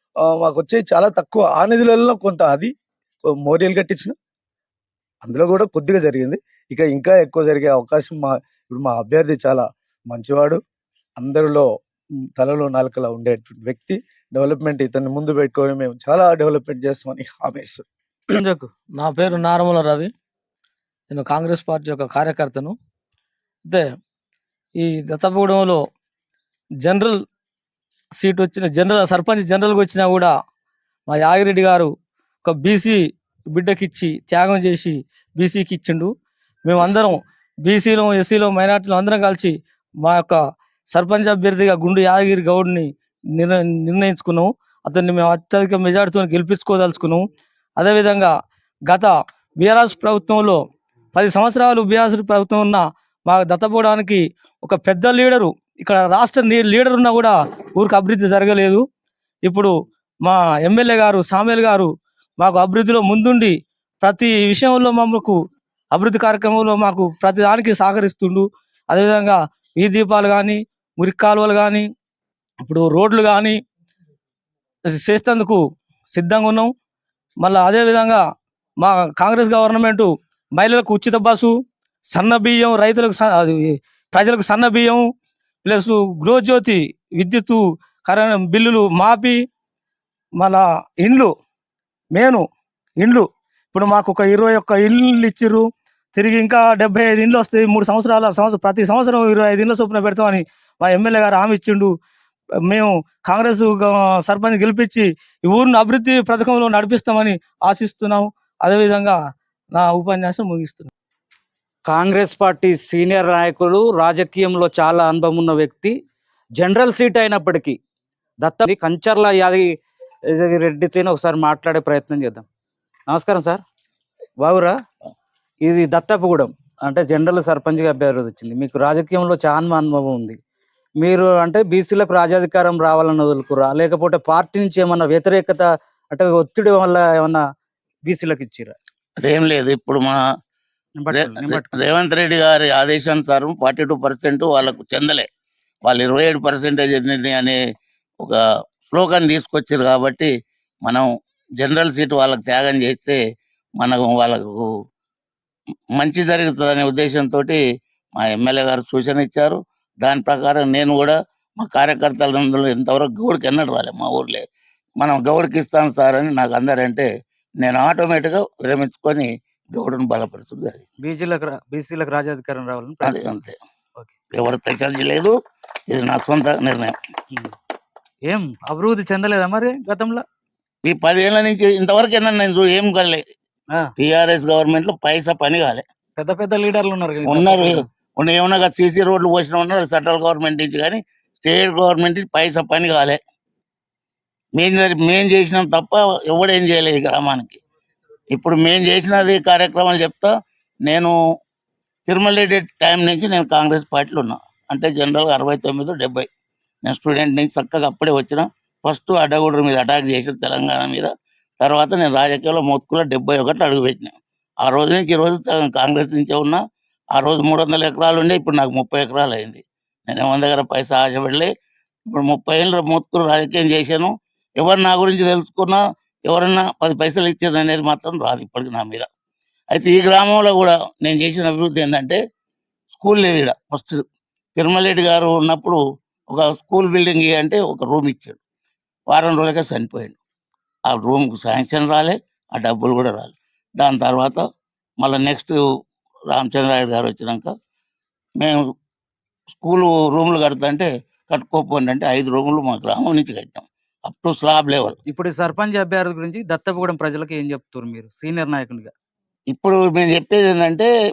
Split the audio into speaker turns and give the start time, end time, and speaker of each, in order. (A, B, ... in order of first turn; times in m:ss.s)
0:00.2-0:02.7 A
0:03.3-0:04.2 A
0:05.2-0:10.6 A
0:11.2-0:11.7 A
0:12.4-0:17.8 A
0:18.3-0:18.7 B
0:19.0-0:20.1 C
0:21.1-0:22.8 C
0:24.8-0:25.8 C
0:26.8-0:27.2 C
0:28.2-0:30.3 C
0:31.1-0:31.9 C
0:32.4-0:36.1 C
0:36.7-0:47.2 C
0:47.8-0:48.3 C
0:48.9-0:50.6 C
0:51.1-0:58.8 C
0:59.4-0:59.7 C
1:00.2-1:05.4 C
1:05.9-1:11.9 C
1:12.6-1:13.6 C
1:14.9-1:16.7 C
1:17.4-1:18.2 C
1:18.8-1:21.6 C
1:22.1-1:25.1 C
1:25.6-1:29.4 C
1:30.4-1:31.3 C
1:32.1-1:32.4 C
1:33.0-1:41.9 C
1:42.7-1:49.2 C
1:49.7-1:50.9 C
1:51.9-1:56.0 B
1:56.6-1:57.8 B
1:58.4-1:59.7 B
2:00.3-2:02.5 B
2:03.1-2:03.6 B
2:04.4-2:04.8 B
2:05.6-2:10.4 B
2:11.0-2:17.4 B
2:18.1-2:18.8 B
2:19.2-2:20.2 D
2:21.0-2:21.8 B
2:21.1-2:25.3 D
2:25.9-2:27.6 D
2:28.2-2:30.3 D
2:31.6-2:33.2 D
2:33.8-2:34.7 D
2:36.0-2:37.6 D
2:38.2-2:44.4 D
2:45.0-2:47.1 D
2:47.6-2:50.8 D
2:51.0-2:53.4 B
2:53.0-2:53.6 D
2:54.3-2:55.4 D
2:55.9-2:57.0 D
2:58.2-3:00.2 B
3:00.8-3:03.2 D
3:04.0-3:05.8 D
3:06.2-3:07.8 B
3:07.2-3:13.2 D
3:14.6-3:17.6 D
3:18.3-3:20.3 D
3:20.9-3:21.2 D
3:22.1-3:26.3 D
3:26.8-3:36.6 D
3:37.1-3:41.5 D
3:42.1-3:49.1 D
3:49.7-3:52.2 D
3:52.9-3:54.0 D
3:54.6-3:58.4 D
3:59.1-4:00.2 D
4:00.9-4:04.4 D
4:05.0-4:05.6 D
4:06.3-4:07.5 D
4:08.4-4:08.7 D
4:09.6-4:15.0 D
4:15.1-4:18.9 B
4:19.5-4:20.9 D